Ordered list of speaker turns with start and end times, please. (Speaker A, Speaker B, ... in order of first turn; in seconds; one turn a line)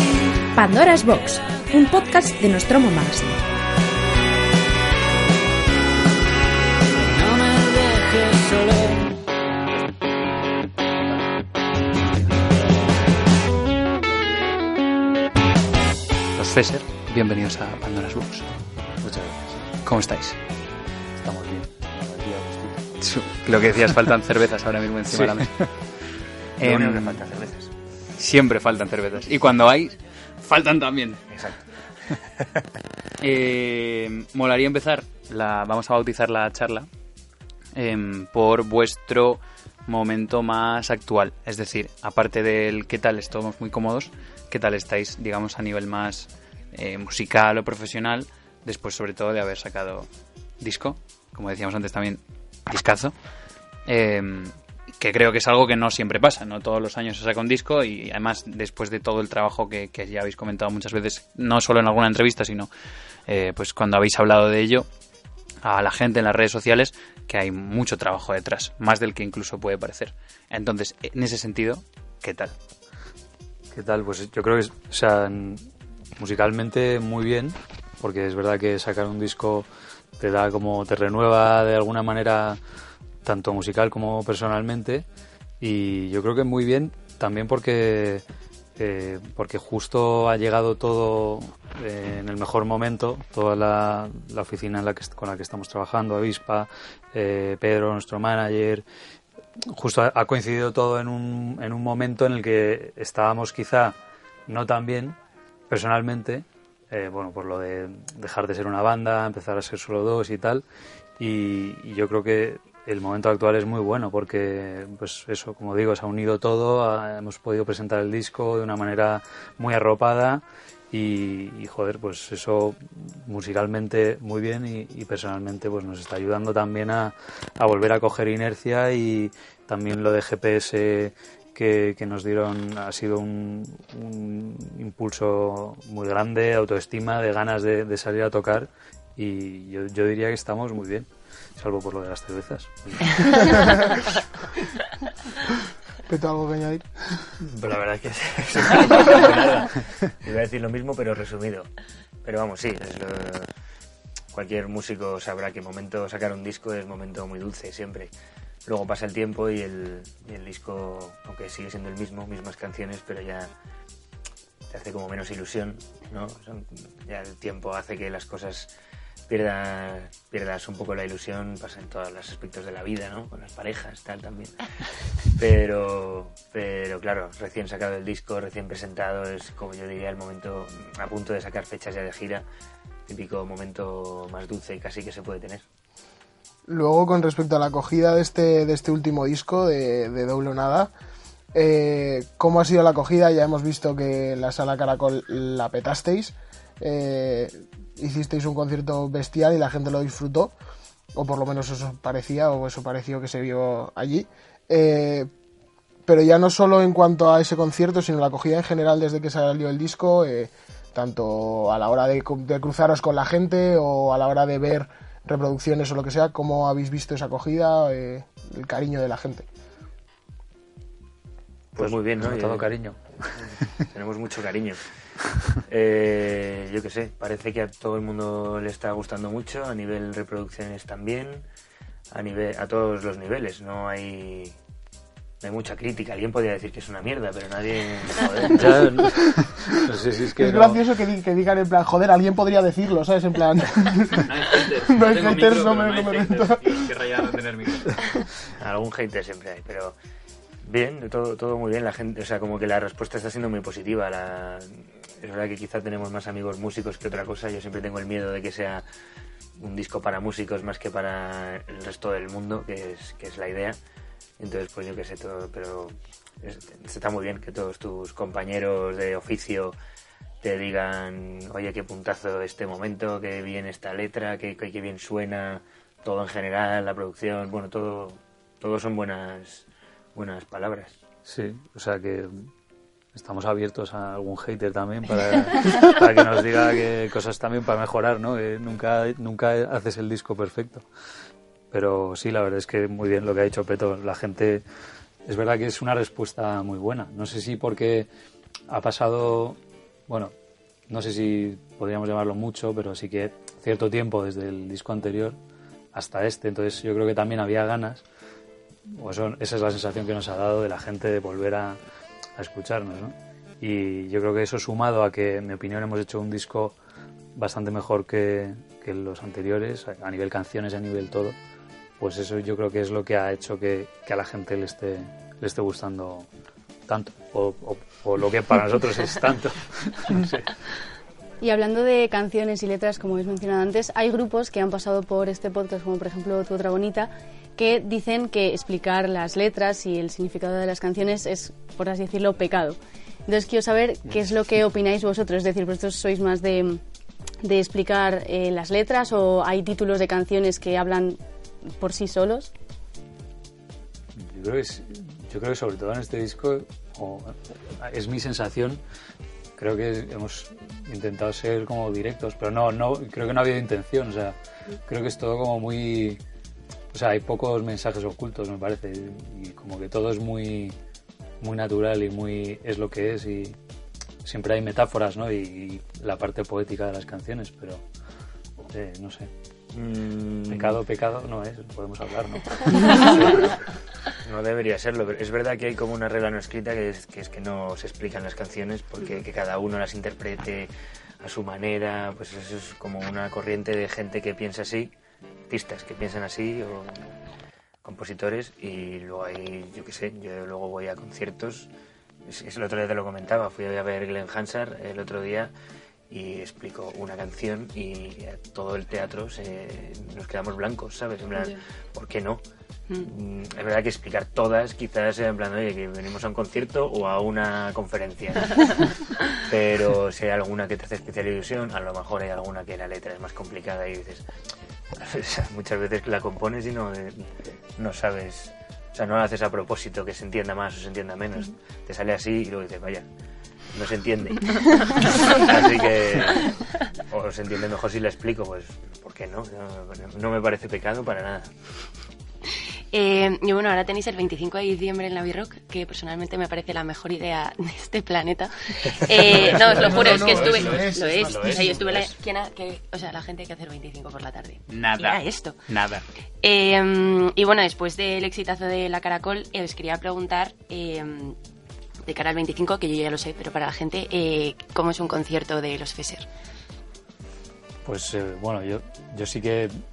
Speaker A: 0.5-3.4
Speaker B: 16.4-18.5
Speaker C: 19.0-19.7
Speaker B: 19.8-20.4
Speaker C: 21.1-22.9
Speaker B: 23.0-25.7
Speaker C: 25.1-25.6
Speaker B: 26.6-27.2
Speaker D: 26.6-27.7
Speaker B: 28.2-31.2
Speaker D: 31.3-31.6
Speaker B: 33.2-36.9
Speaker B: 37.8-50.1
Speaker B: 50.6-53.1
Speaker B: 53.9-62.7
Speaker B: 63.3-64.9
Speaker B: 65.6-72.5
Speaker C: 73.7-79.7
Speaker C: 80.2-82.6
Speaker C: 83.2-85.0
Speaker C: 85.6-88.2
Speaker C: 88.8-98.8
Speaker C: 99.7-104.0
Speaker C: 104.5-105.2
Speaker C: 105.7-110.6
Speaker C: 111.2-143.7
Speaker E: 143.3-143.8
Speaker E: 146.1-146.9
Speaker D: 147.4-151.7
Speaker D: 152.2-153.5
Speaker D: 154.3-158.1
Speaker D: 158.6-163.5
Speaker D: 164.7-168.7
Speaker D: 169.3-174.6
Speaker D: 175.2-182.4
Speaker D: 183.1-185.6
Speaker E: 186.7-190.9
Speaker E: 191.5-200.5
Speaker E: 201.1-205.3
Speaker E: 206.1-219.5
Speaker D: 221.7-222.7
Speaker C: 221.8-223.3
Speaker D: 223.4-224.8
Speaker D: 225.5-231.4
Speaker D: 232.1-234.6
Speaker D: 235.4-238.9
Speaker C: 238.5-240.8
Speaker E: 240.3-246.8
Speaker B: 244.1-248.0
Speaker D: 248.6-249.9
Speaker D: 250.6-258.8
Speaker D: 259.6-263.8
Speaker D: 264.4-269.7
Speaker D: 270.4-281.0
Speaker C: 281.2-282.5
Speaker C: 283.1-290.9
Speaker C: 291.7-294.6
Speaker C: 295.2-298.1
Speaker C: 298.7-300.3
Speaker C: 300.9-305.4
Speaker C: 305.9-308.0
Speaker C: 308.9-311.8
Speaker C: 312.4-316.7
Speaker C: 317.4-321.4
Speaker C: 322.0-326.3
Speaker C: 326.9-330.5
Speaker F: 331.4-346.8
Speaker F: 347.4-352.5
Speaker C: 354.1-358.8
Speaker C: 359.6-366.2
Speaker C: 366.9-370.7
Speaker C: 371.4-373.6
Speaker C: 374.2-377.8
Speaker C: 378.7-379.3
Speaker D: 379.7-380.8
Speaker C: 380.5-383.5
Speaker D: 384.2-390.7
Speaker D: 391.2-394.9
Speaker D: 395.5-397.2
Speaker D: 397.8-401.7
Speaker D: 402.2-405.5
Speaker D: 406.1-412.4
Speaker D: 413.0-424.2
Speaker D: 425.0-427.2
Speaker D: 427.8-433.1
Speaker D: 433.7-441.5
Speaker G: 442.9-455.6
Speaker E: 449.2-451.8
Speaker B: 449.2-452.1
Speaker B: 454.7-456.0
Speaker G: 456.4-461.4
Speaker G: 462.1-466.3
Speaker C: 467.8-469.8